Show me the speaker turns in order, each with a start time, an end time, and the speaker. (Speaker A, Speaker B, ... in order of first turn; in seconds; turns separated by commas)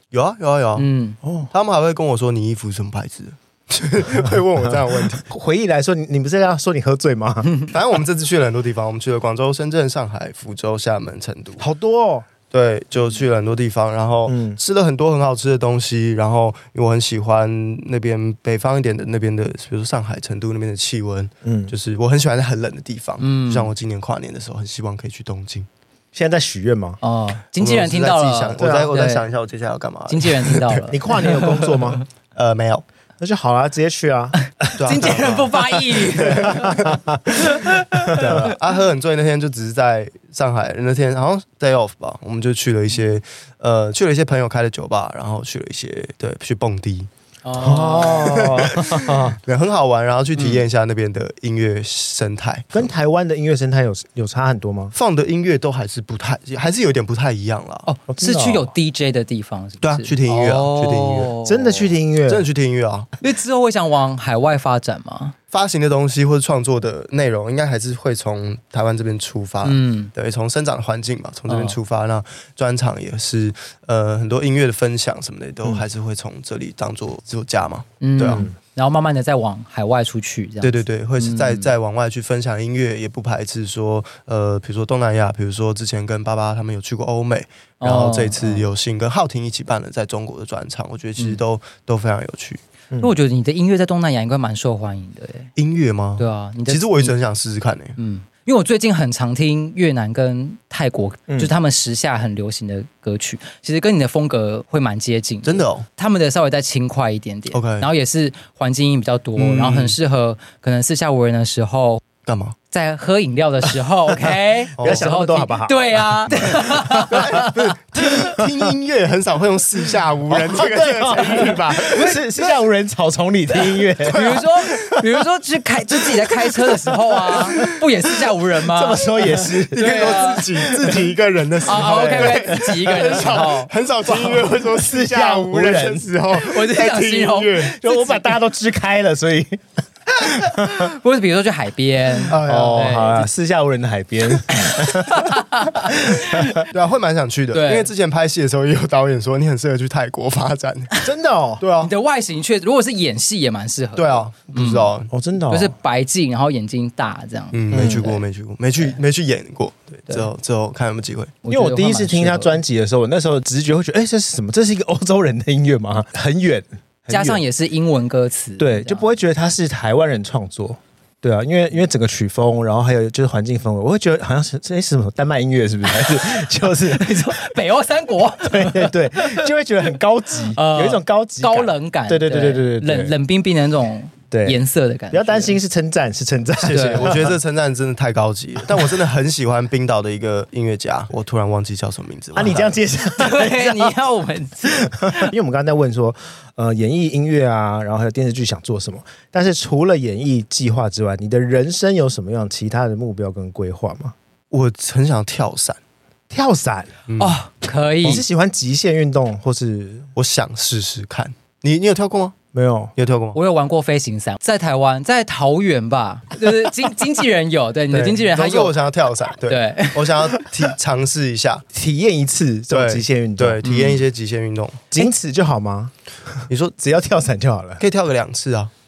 Speaker A: 0.1-0.8, Speaker B: 0.8-1.2, Speaker C: 1.2-1.5, Speaker A: 1.5-5.2, Speaker C: 5.3-7.5, Speaker A: 7.7-11.7, Speaker C: 11.6-12.3, Speaker A: 12.5-25.7, Speaker C: 14.3-14.6, Speaker C: 21.4-21.7, Speaker B: 23.2-23.7, Speaker C: 26.1-27.0, Speaker B: 27.0-29.3, Speaker A: 27.6-30.8, Speaker C: 28.6-28.9, Speaker B: 30.1-32.0, Speaker C: 30.9-32.0, Speaker A: 32.3-32.8, Speaker C: 33.2-35.0, Speaker B: 34.4-38.5, Speaker A: 34.8-37.0, Speaker C: 36.1-38.5, Speaker A: 38.1-47.1, Speaker B: 47.4-48.5, Speaker C: 47.6-49.4, Speaker A: 47.7-52.9, Speaker B: 50.4-50.6, Speaker C: 52.7-54.9, Speaker A: 54.9-57.9, Speaker B: 57.9-61.9, Speaker C: 58.1-58.7, Speaker A: 59.8-61.3, Speaker C: 61.4-62.5, Speaker A: 62.3-63.1, Speaker B: 63.2-65.3, Speaker A: 65.5-78.5, Speaker B: 69.6-70.1, Speaker B: 71.5-71.8, Speaker B: 78.0-81.7, Speaker C: 78.2-78.5, Speaker A: 80.6-92.6, Speaker B: 87.8-88.6, Speaker B: 93.0-95.5, Speaker A: 95.5-98.0, Speaker B: 96.2-97.1, Speaker B: 98.0-112.0, Speaker A: 105.4-105.8, Speaker A: 107.5-107.9, Speaker A: 109.4-110.0, Speaker A: 112.2-112.5, Speaker B: 112.7-118.4, Speaker C: 114.8-117.5, Speaker A: 114.8-115.0, Speaker A: 117.1-122.2, Speaker C: 118.2-118.5, Speaker C: 120.3-125.2, Speaker B: 121.8-122.2, Speaker A: 124.0-124.4, Speaker B: 124.0-129.0, Speaker C: 126.0-131.1, Speaker A: 129.7-137.8, Speaker B: 129.7-130.4, Speaker B: 131.6-134.4, Speaker C: 131.9-132.6, Speaker C: 134.1-136.1, Speaker B: 136.3-138.3, Speaker C: 137.6-140.9, Speaker B: 140.2-143.3, Speaker A: 142.3-143.0, Speaker C: 142.3-146.6, Speaker B: 144.5-146.7, Speaker A: 146.7-150.9, Speaker B: 147.5-147.9, Speaker C: 151.0-151.6, Speaker A: 151.6-151.9, Speaker B: 151.8-154.9, Speaker A: 153.9-155.1, Speaker C: 155.1-155.7, Speaker B: 155.5-158.2, Speaker A: 157.5-161.4, Speaker C: 157.7-158.1, Speaker B: 161.4-162.6, Speaker C: 161.5-167.4, Speaker B: 167.1-169.1, Speaker C: 168.6-177.4, Speaker B: 176.0-179.4, Speaker C: 178.4-183.1, Speaker B: 180.5-185.6, Speaker C: 184.3-184.6, Speaker C: 185.1-187.3, Speaker A: 186.6-192.8, Speaker B: 186.7-187.2, Speaker C: 192.3-194.0, Speaker B: 193.2-195.3, Speaker C: 194.9-204.1, Speaker A: 204.5-205.8, Speaker C: 206.3-206.9, Speaker A: 207.1-207.4, Speaker B: 207.2-208.2, Speaker C: 208.0-210.1, Speaker A: 210.2-212.3, Speaker C: 212.5-212.9, Speaker A: 213.0-213.4, Speaker B: 213.3-218.8, Speaker A: 217.9-221.6, Speaker B: 219.5-220.3, Speaker C: 221.7-223.6, Speaker A: 222.7-224.9, Speaker B: 223.6-224.0, Speaker C: 224.9-225.9, Speaker A: 226.5-226.7, Speaker C: 226.8-227.8, Speaker A: 227.8-228.7